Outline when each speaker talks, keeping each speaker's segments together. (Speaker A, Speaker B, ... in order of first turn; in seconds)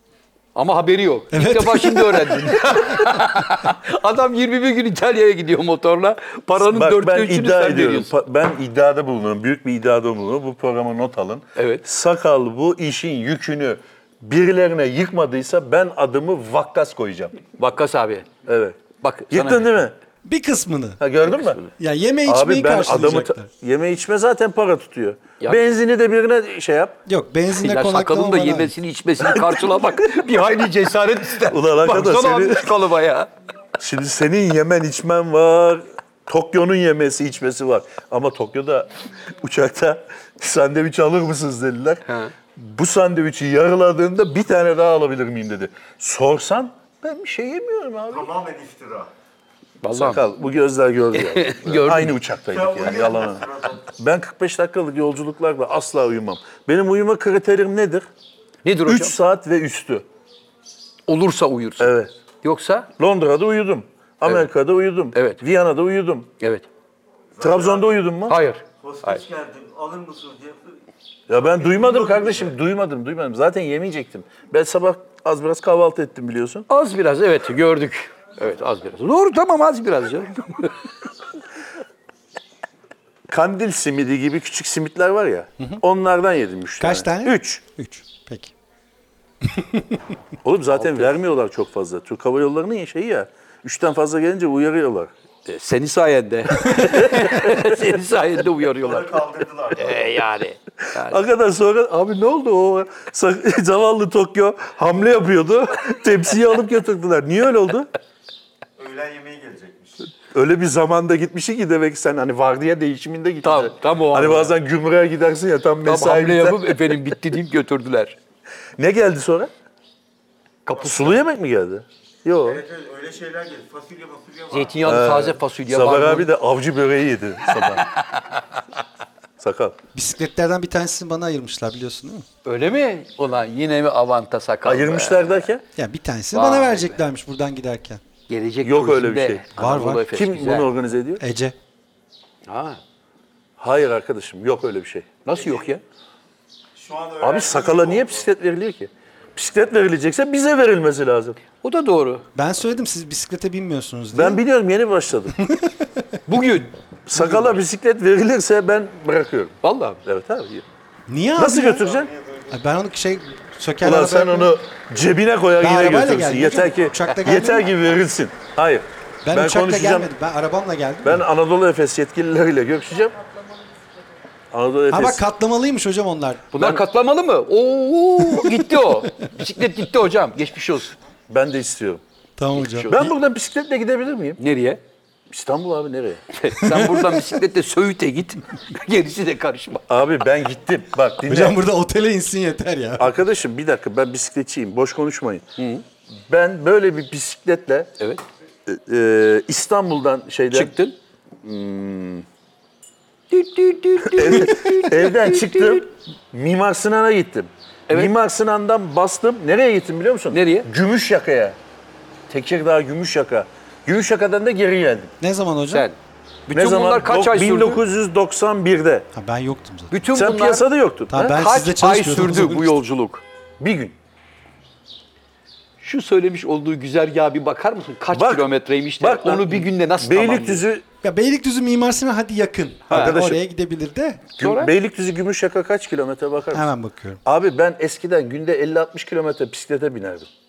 Speaker A: 0.6-8.1, 11.6-11.9, 17.6-18.3, 19.0-19.7, 21.4-21.7, 27.6-33.3, 42.1-42.3, 49.8-50.2, 51.1-52.1, 58.6-59.1, 61.1-62.9, 65.1-65.4, 66.4-66.7, 68.3-69.2, 76.7-80.7, 90.8-91.1, 95.5-101.2, 113.4-114.5, 115.8-118.2, 120.7-121.2, 124.5-126.3, 127.5-128.4, 132.4-135.5, 136.3-137.0, 138.3-140.7, 142.4-142.8, 145.2-145.8, 151.6-152.2, 156.3-156.7, 159.6-160.0, 176.5-180.9, 182.6-183.1, 184.4-184.8, 186.3-189.9, 195.6-195.8, 200.5-200.9, 203.3-205.8, 210.3-210.7, 215.7-216.0, 216.5-217.8, 219.9-223.2, 225.8-230.7, 232.9-233.2, 234.4-234.7
Speaker B: 1.3-3.1, 20.2-21.0, 21.8-23.5, 27.1-28.7, 86.8-88.5, 89.4-90.0, 129.9-132.2, 135.8-138.0, 139.6-140.1, 141.2-141.6, 152.3-154.4, 155.4-156.0, 161.1-161.9, 162.5-164.5, 165.6-167.7, 169.2-171.2, 174.9-176.5, 178.3-178.6, 182.4-183.0, 186.6-187.3, 191.2-193.1, 215.2-215.9, 219.1-219.9, 221.1-222.8, 231.0-234.2, 236.5-237.2
Speaker C: 6.6-17.4, 18.4-18.8, 19.3-19.9, 21.0-21.6, 22.2-27.0, 29.2-30.2, 31.4-32.7, 33.8-42.0, 42.6-48.3, 49.9-58.1, 58.9-60.0, 61.8-62.1, 63.0-66.3, 67.4-68.4, 71.3-76.7, 83.3-87.6, 90.4-95.1, 96.7-97.6, 100.9-107.9, 110.2-116.9, 118.8-119.5, 120.8-122.6, 124.8-127.9, 129.4-129.8, 134.6-135.6, 138.6-139.5, 140.1-141.2, 143.6-145.2, 147.2-151.4, 154.1-155.4, 157.1-160.6, 161.4-162.1, 163.8-170.1, 171.0-173.2, 174.5-175.2, 176.6-176.8, 181.3-182.0, 182.9-184.4, 185.3-186.2, 189.9-191.6, 193.0-195.4, 196.3-197.9, 198.7-200.7, 201.4-202.2, 204.0-211.6, 212.3-215.1, 216.5-219.1, 220.1-221.3, 223.6-223.9, 228.1-228.5, 229.0-230.8, 232.9-233.4, 234.4-236.7, 237.2-240.3
Speaker D: 48.1-49.1, 52.5-53.8, 68.8-70.6, 98.8-100.0, 108.8-110.0, 122.5-124.8, 146.8-148.2, 162.1-162.4